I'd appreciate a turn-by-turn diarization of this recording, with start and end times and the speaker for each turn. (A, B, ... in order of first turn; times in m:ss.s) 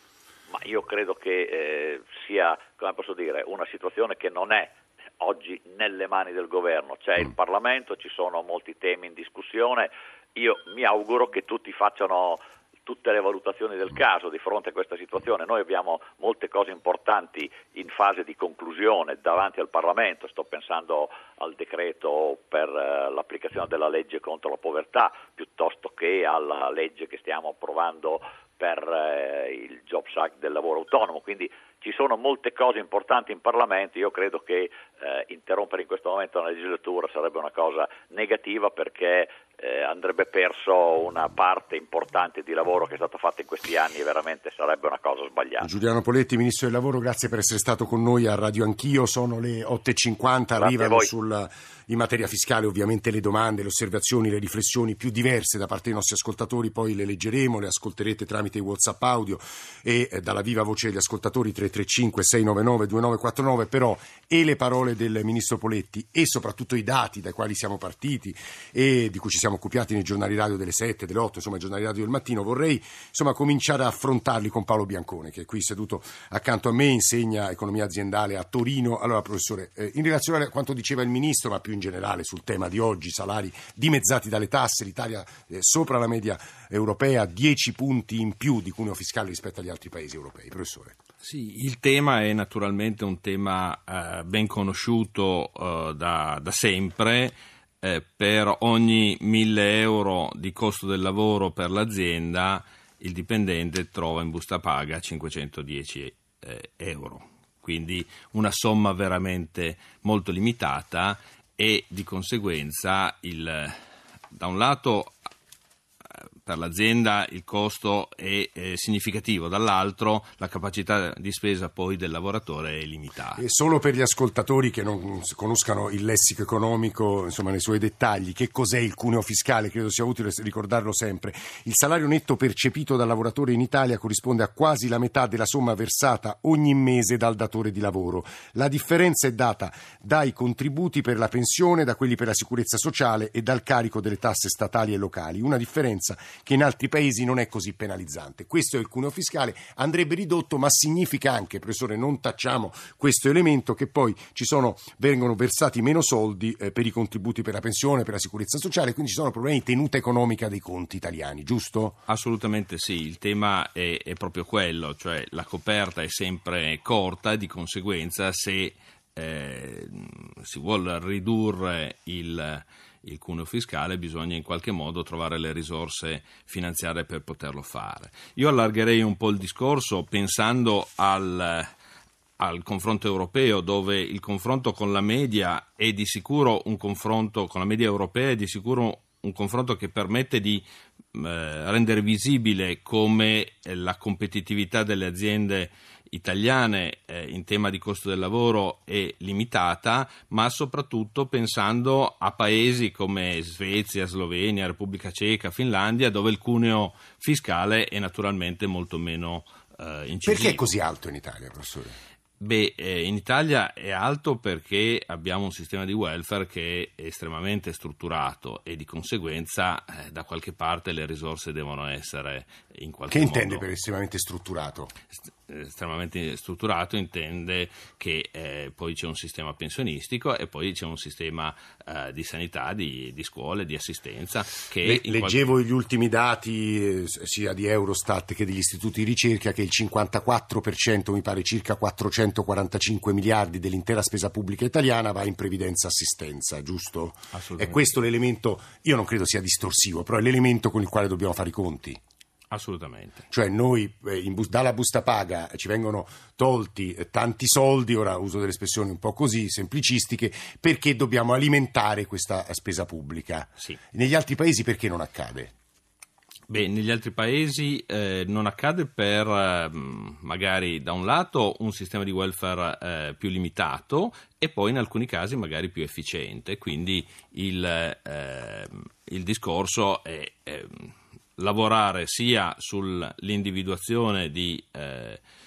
0:00.5-0:45.7 A
0:45.6-1:31.0 B
0:50.6-0:51.1 A
1:31.2-1:53.8 C
1:54.3-1:55.1 C
1:56.4-2:03.4 C
2:03.4-2:42.0 B
2:42.1-3:01.7 C
3:02.4-3:30.6 C
3:30.2-3:32.0 B
3:32.4-3:43.6 C
3:43.1-3:44.9 B
3:45.5-3:55.4 C
3:54.8-4:12.0 B
4:07.3-4:07.8 C
4:12.5-4:13.2 C
4:13.3-4:25.5 B
4:26.5-4:45.2 C